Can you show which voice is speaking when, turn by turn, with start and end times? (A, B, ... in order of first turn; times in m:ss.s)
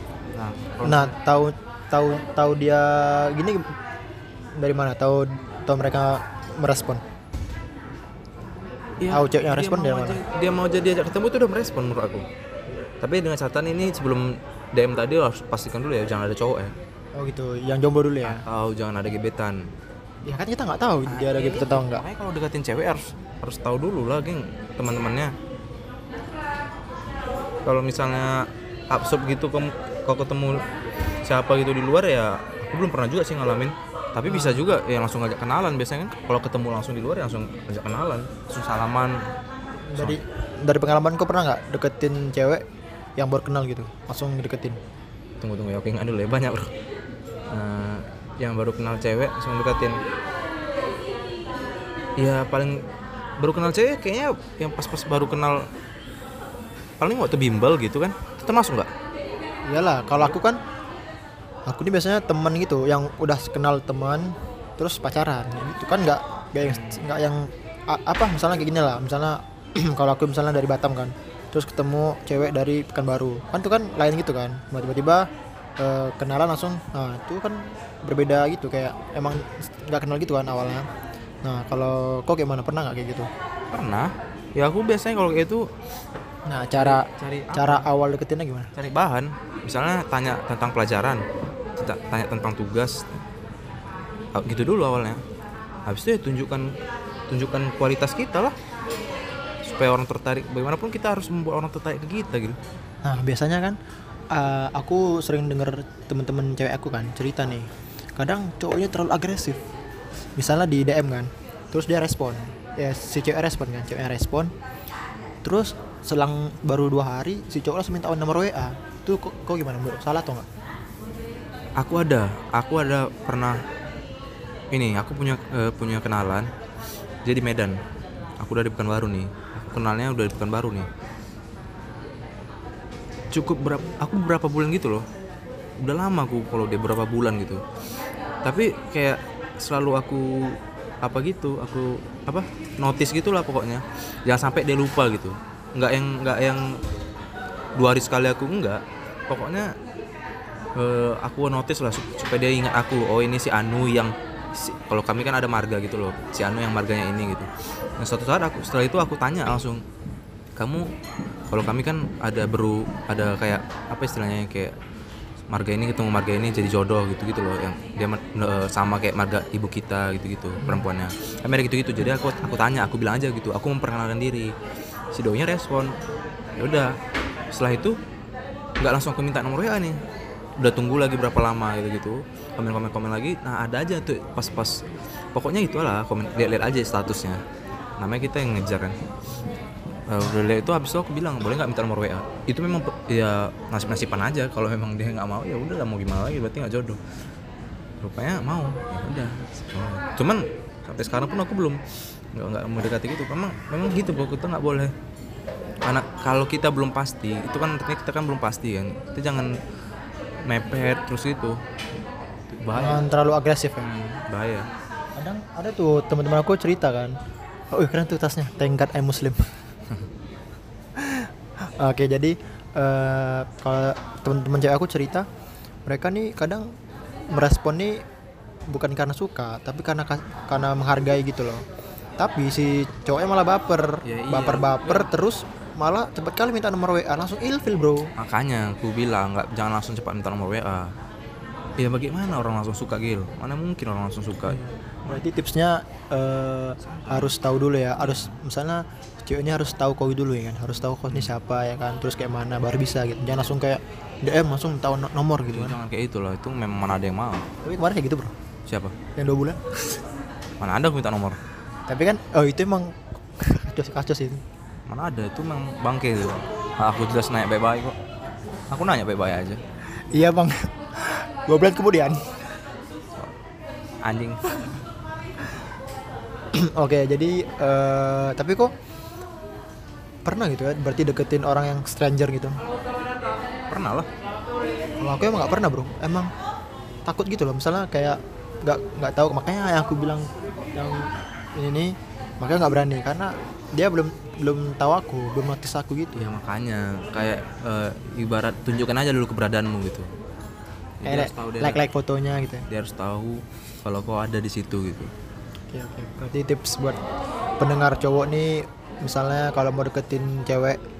0:00.3-0:01.1 A
0:00.8-0:03.7 B
0:04.6-0:07.0 B
0:09.0-0:12.3 A
0:09.1-0:10.2 B
0:13.0-0:16.8 A
0:17.2-0:18.4 B
0:18.2-0:19.7 A
0:20.2-0:22.0 B
0:21.1-0:25.4 A
0:27.6-0:30.7 A
0:31.2-0:39.2 A
0:34.3-0:34.6 B
0:39.9-0:42.6 B
0:43.2-0:44.8 B
0:45.4-0:46.7 A
0:47.5-0:50.0 A
0:52.2-0:52.8 A
0:53.4-0:55.7 A
0:57.0-0:58.9 A
0:59.7-1:00.6 B
1:01.7-1:20.9 B
1:06.6-1:07.0 A
1:21.4-1:23.3 B
1:23.7-1:25.7 A
1:26.5-1:28.7 B
1:26.8-1:27.9 A
1:28.7-1:31.2 A
1:31.8-1:33.1 A
1:34.3-1:35.2 A
1:35.9-1:36.8 A
1:37.3-1:38.6 A
1:39.6-1:42.6 A
1:43.0-1:43.8 B
1:44.3-1:49.6 B
1:50.4-1:54.5 B
1:55.4-2:00.5 B
2:01.8-2:03.6 A
2:04.7-2:06.5 A
2:07.2-2:07.8 A
2:08.4-2:10.9 A
2:13.3-2:15.1 A
2:15.8-2:17.6 A
2:18.4-2:26.8 A
2:27.8-2:29.7 A
2:30.8-2:39.8 A
2:40.6-2:40.9 A
2:41.5-2:44.8 A
2:45.5-2:54.5 A
2:50.6-2:50.9 B
2:55.1-2:56.0 A
2:56.6-2:57.0 A
2:57.5-2:58.0 A
2:58.8-3:00.0 A
3:00.6-3:04.8 A
3:05.4-3:07.4 A
3:08.0-3:09.0 A
3:10.1-3:17.0 A
3:18.0-3:21.8 A
3:22.3-3:24.9 A
3:25.8-3:29.6 A
3:30.5-3:31.6 A
3:32.5-3:33.0 A
3:32.7-3:33.9 B
3:33.8-3:34.7 A
3:35.2-3:37.2 B
3:37.7-3:39.5 B
3:41.0-3:45.3 B
3:45.9-3:46.7 B
3:47.3-3:48.0 B
3:48.7-3:51.6 B
3:52.2-3:58.1 B
3:54.0-3:55.1 A
3:58.2-4:00.9 A
4:01.8-4:05.2 A
4:04.5-4:15.8 B
4:06.8-4:07.3 A
4:08.0-4:08.3 A
4:15.5-4:17.5 A
4:17.6-4:18.3 B
4:18.7-4:19.0 A
4:19.2-4:19.6 B
4:20.6-4:21.4 A
4:21.9-4:24.4 B
4:24.9-4:28.0 A
4:28.7-4:29.6 A
4:30.1-4:32.4 B
4:34.0-4:34.6 A
4:36.5-4:38.7 B
4:40.2-4:42.6 B
4:43.7-4:44.1 A
4:45.0-4:46.3 B
4:47.0-4:56.2 B
4:56.2-5:00.1 A
5:01.0-5:01.8 A
5:01.0-5:02.6 B
5:02.7-5:05.1 A
5:05.7-5:07.0 B
5:07.6-5:10.8 B